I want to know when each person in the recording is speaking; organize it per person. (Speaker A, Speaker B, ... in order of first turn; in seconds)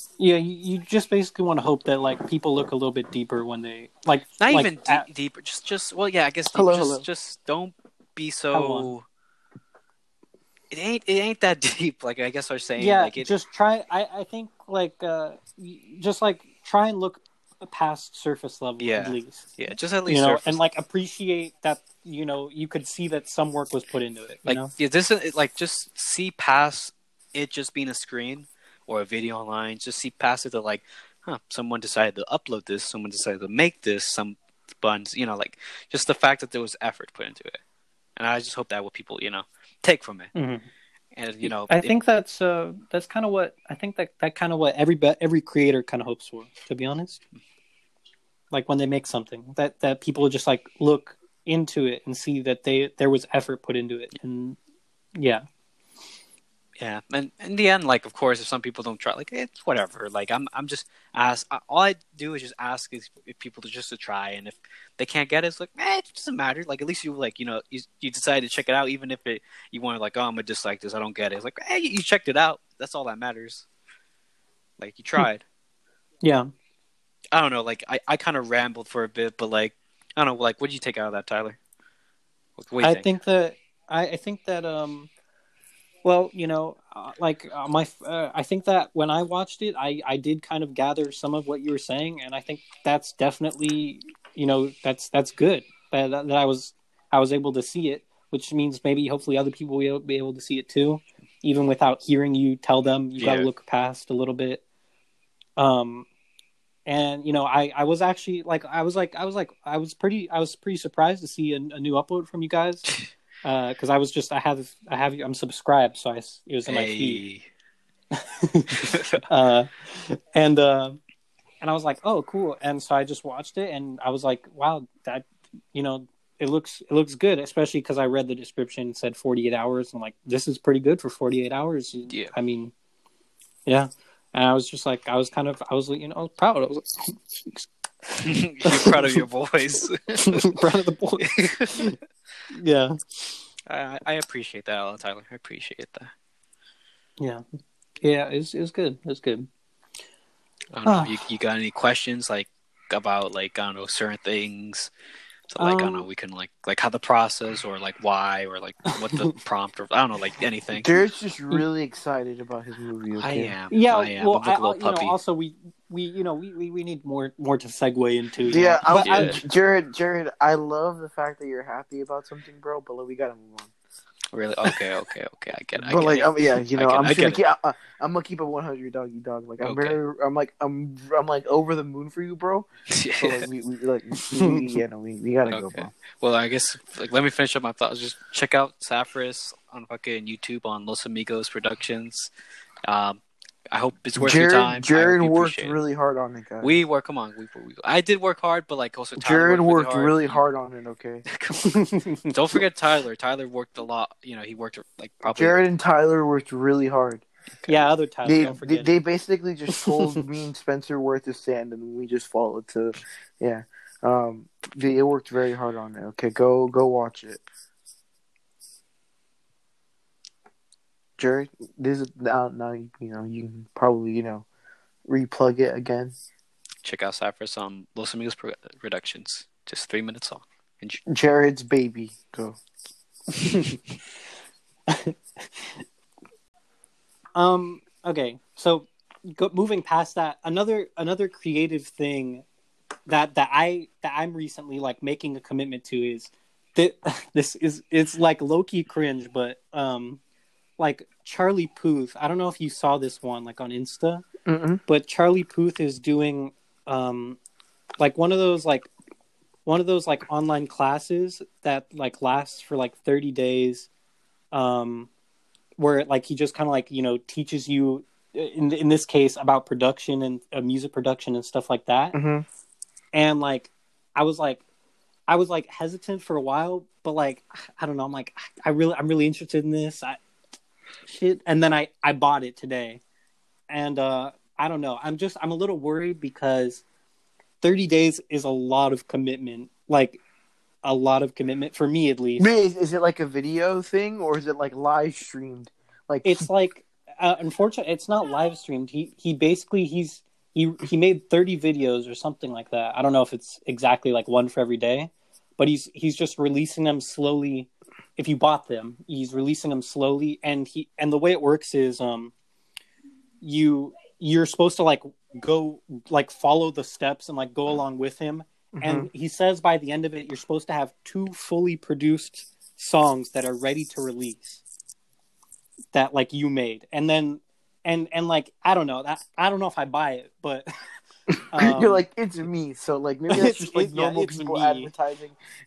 Speaker A: 0.2-5.1, 8.5-8.9, 12.8-19.5, 20.1-24.7, 40.4-40.7, 41.4-47.2, 48.5-54.6, 55.1-55.5, 76.2-76.5, 82.8-85.1, 86.0-104.6, 105.6-106.1, 106.9-112.9, 113.4-117.2, 118.2-121.0, 121.6-132.7, 133.7-139.2, 140.2-141.9, 142.5-143.4, 147.2-147.4, 148.0-149.5, 150.8-151.2, 155.6-156.1, 159.0-159.3, 163.7-169.4, 184.2-184.6, 201.6-202.3, 207.7-208.9, 233.4-233.8, 234.9-235.8, 237.3-242.4, 243.1-250.2, 250.8-254.3, 254.9-257.4, 258.0-258.9, 259.7-263.9, 264.5-265.1, 265.8-272.2, 273.1-274.6, 275.3-280.2, 281.1-283.0, 283.7-286.8, 287.6-290.2, 290.8-292.5, 296.2-312.3, 313.4-324.6, 325.9-330.7, 331.5-332.0, 333.3-334.9
Speaker B: 4.4-9.1, 10.7-13.3, 18.8-20.6, 24.5-37.6, 38.2-40.3, 41.1-41.9, 56.8-73.7, 74.8-75.4, 77.3-81.6, 82.6-83.1, 103.2-103.5, 116.7-117.5, 118.8-119.2, 138.2-140.5, 141.2-141.9, 143.7-146.1, 150.7-154.9, 155.5-161.0, 163.2-165.2, 168.5-169.4, 174.3-177.4, 179.6-180.0, 182.9-183.5, 185.5-192.3, 192.9-195.8, 196.6-200.4, 201.3-201.6, 202.3-205.6, 207.6-207.9, 226.8-231.0
Speaker C: 6.5-7.1, 160.7-163.5, 168.5-173.7, 175.8-185.9, 194.2-196.7, 199.2-201.2, 205.3-207.2, 208.2-217.4, 221.2-224.5, 225.1-226.2, 231.1-232.6, 254.5-254.8, 272.1-272.4, 292.4-296.5, 318.8-319.1, 331.6-335.4